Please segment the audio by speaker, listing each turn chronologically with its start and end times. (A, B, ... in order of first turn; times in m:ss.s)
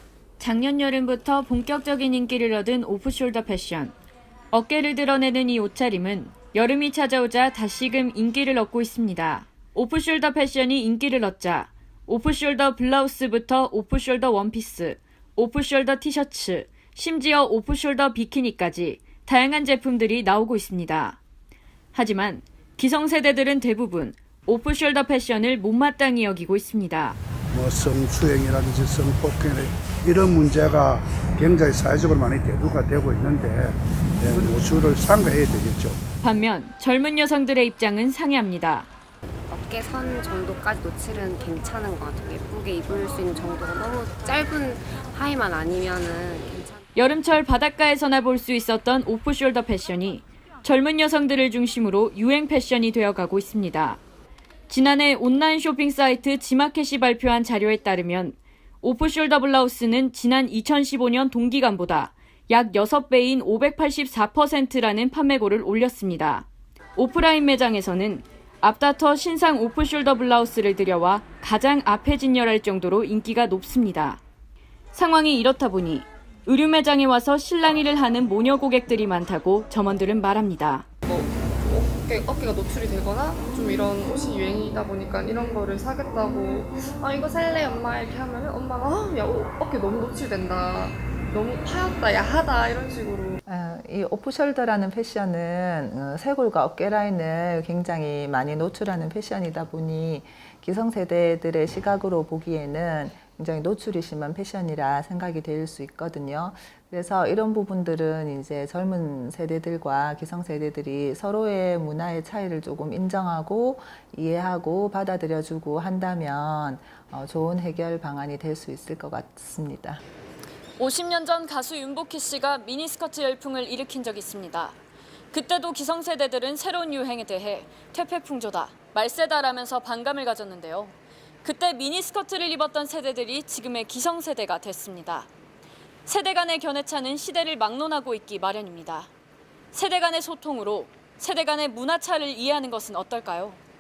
0:00.4-0:03.9 A
0:04.5-0:21.2 A
0:21.9-0:27.2 A
0:27.5-0:36.0 B
0:36.2-0:38.9 A
0:39.5-0:46.8 C
0:47.0-0:54.0 A
0:54.7-1:14.2 A
1:14.9-1:20.8 A
1:21.0-1:33.4 D
1:33.4-2:00.0 E
2:00.8-2:04.8 A
2:05.3-2:15.3 A
2:16.0-2:19.1 A
2:19.7-2:23.6 A